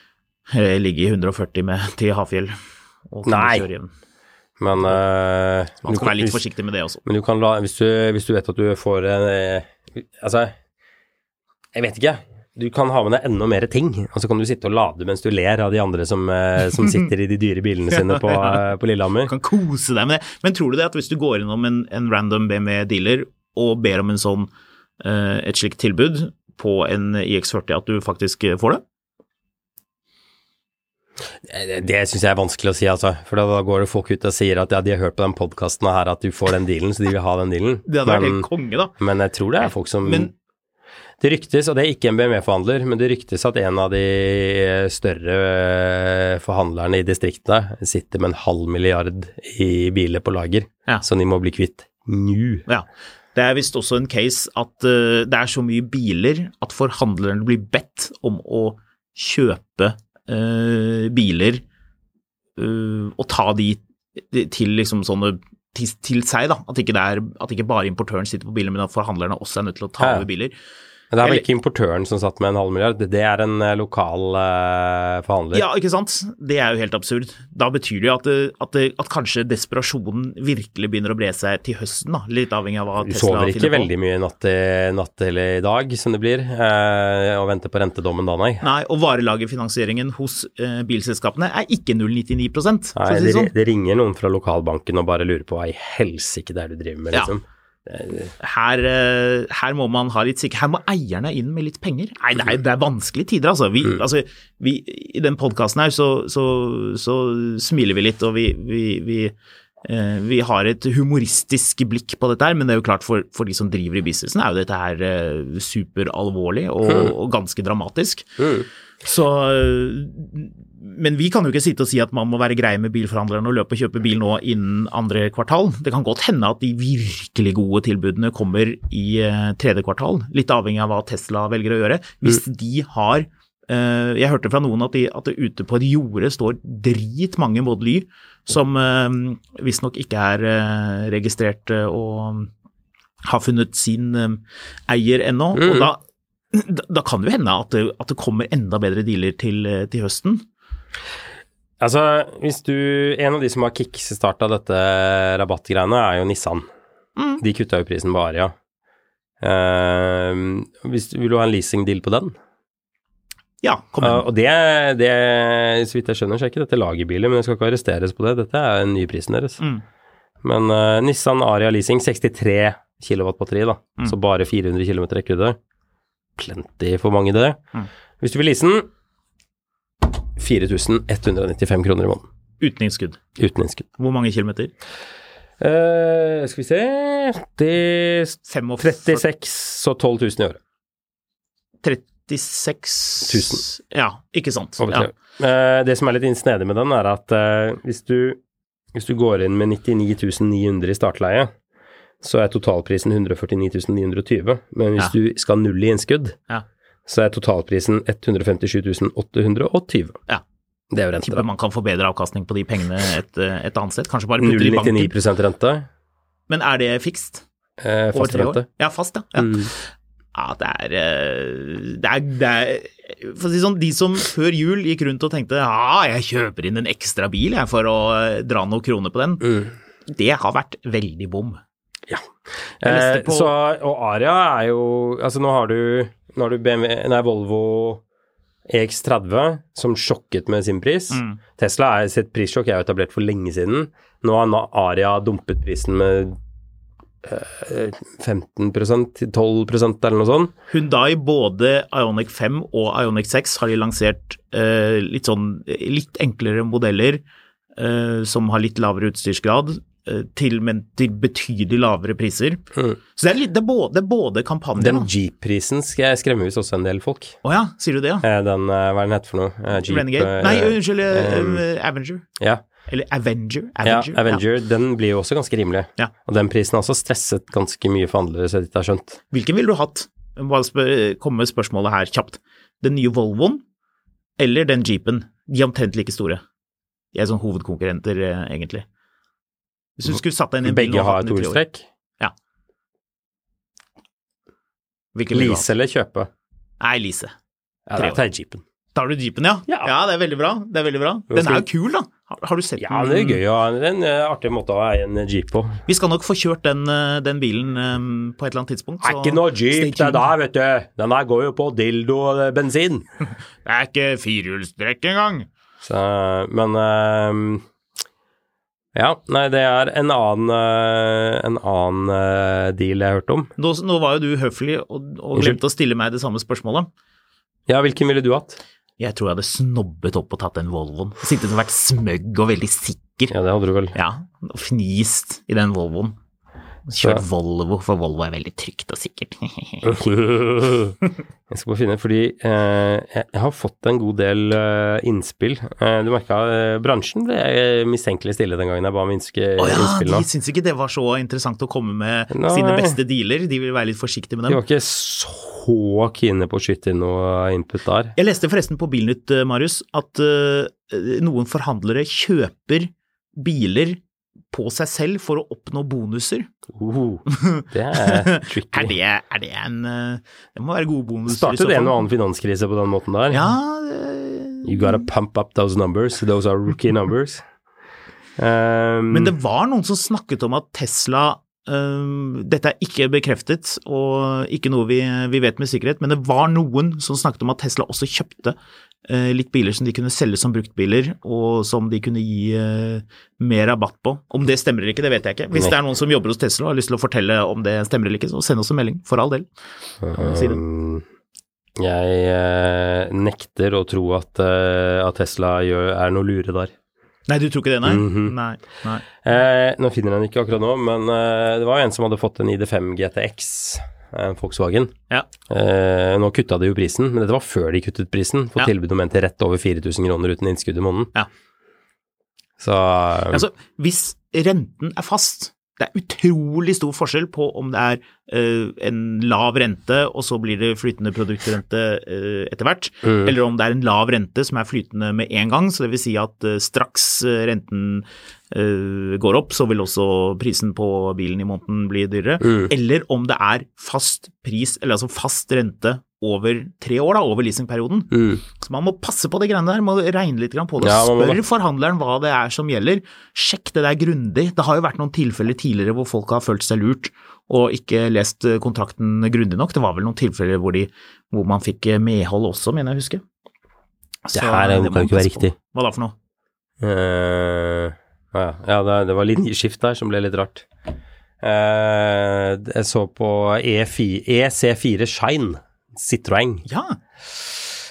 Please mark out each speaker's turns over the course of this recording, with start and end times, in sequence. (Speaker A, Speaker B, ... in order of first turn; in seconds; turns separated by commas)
Speaker A: 0.5-2.6, Speaker A: 3.1-3.9, Speaker B: 3.2-3.7, Speaker B: 4.6-6.4, Speaker A: 5.8-7.0, Speaker B: 7.0-10.5, Speaker B: 11.7-19.3, Speaker A: 18.0-18.6, Speaker A: 19.3-28.8, Speaker B: 31.4-38.5, Speaker A: 37.9-38.9, Speaker B: 39.0-40.3, Speaker A: 39.6-40.3, Speaker B: 41.2-52.6, Speaker A: 52.7-61.6, Speaker A: 62.6-70.5, Speaker B: 70.0-70.2, Speaker B: 71.1-75.6, Speaker A: 75.5-83.9, Speaker B: 83.0-88.7, Speaker A: 88.6-93.5, Speaker B: 92.9-98.3, Speaker A: 98.4-118.4, Speaker B: 118.4-118.7, Speaker A: 119.0-142.5, Speaker A: 143.2-146.0, Speaker B: 145.6-145.9, Speaker A: 146.5-150.4, Speaker B: 151.8-156.7, Speaker B: 157.4-158.5, Speaker B: 159.4-162.3, Speaker A: 163.6-164.2, Speaker B: 164.0-169.6, Speaker B: 170.4-175.6, Speaker B: 176.4-177.6, Speaker B: 178.2-178.9, Speaker B: 180.3-182.2, Speaker A: 182.6-183.2, Speaker B: 183.4-183.8, Speaker A: 184.0-184.7, Speaker B: 185.6-190.6, Speaker A: 188.4-189.2, Speaker A: 191.8-195.1, Speaker B: 193.3-193.6, Speaker B: 194.8-198.4, Speaker B: 198.9-201.5, Speaker B: 202.2-206.4, Speaker B: 207.1-210.2, Speaker B: 210.9-211.4, Speaker A: 211.2-215.1, Speaker B: 214.4-215.9, Speaker A: 216.5-217.4, Speaker B: 217.8-218.6, Speaker A: 218.1-229.5, Speaker B: 219.3-219.7, Speaker B: 229.4-229.7, Speaker A: 230.1-231.6, Speaker B: 232.1-238.0, Speaker A: 232.8-233.5, Speaker B: 238.7-246.4, Speaker A: 241.1-241.4, Speaker B: 247.2-250.5, Speaker A: 250.7-257.2, Speaker A: 257.8-262.6, Speaker A: 263.1-265.1, Speaker B: 264.8-267.4, Speaker A: 267.4-268.2, Speaker B: 268.2-271.6, Speaker A: 269.8-272.2, Speaker A: 272.9-274.4, Speaker B: 273.8-279.2, Speaker A: 279.3-283.6, Speaker A: 284.4-286.4, Speaker A: 287.1-288.8, Speaker A: 290.0-291.6, Speaker B: 290.6-291.9, Speaker A: 295.1-295.7, Speaker B: 295.3-296.3, Speaker A: 296.8-297.3, Speaker B: 297.9-298.6, Speaker A: 297.9-298.2, Speaker A: 298.9-303.4, Speaker B: 301.3-301.6, Speaker B: 302.8-305.8, Speaker A: 305.9-310.2, Speaker B: 309.0-313.1, Speaker A: 313.6-315.5, Speaker B: 315.8-317.6, Speaker B: 318.9-323.5, Speaker A: 323.6-326.9, Speaker B: 325.3-325.6, Speaker B: 327.7-328.6, Speaker A: 329.0-333.3, Speaker B: 333.3-333.9, Speaker A: 333.9-336.1, Speaker A: 336.9-340.0, Speaker B: 337.0-337.2, Speaker B: 339.8-341.0, Speaker B: 341.5-350.2, Speaker A: 349.6-354.6, Speaker B: 352.3-353.0, Speaker B: 354.5-358.1, Speaker A: 358.1-364.0, Speaker A: 364.5-366.5, Speaker B: 366.7-368.9, Speaker A: 367.3-372.0, Speaker B: 371.3-373.5, Speaker A: 373.3-375.0, Speaker B: 374.6-377.4, Speaker B: 378.4-379.3, Speaker A: 379.1-388.5, Speaker A: 389.1-399.4, Speaker B: 400.0-401.0, Speaker A: 400.1-400.6, Speaker B: 401.8-406.7, Speaker A: 407.3-409.1, Speaker B: 407.8-408.3, Speaker B: 409.2-414.9, Speaker B: 415.5-421.1, Speaker B: 422.6-423.4, Speaker A: 423.3-463.2, Speaker B: 433.1-433.3, Speaker B: 442.4-442.7, Speaker B: 448.1-448.4, Speaker B: 450.8-451.4, Speaker A: 464.2-466.1, Speaker B: 464.3-465.5, Speaker B: 466.8-470.7, Speaker B: 471.4-476.6, Speaker A: 476.6-477.0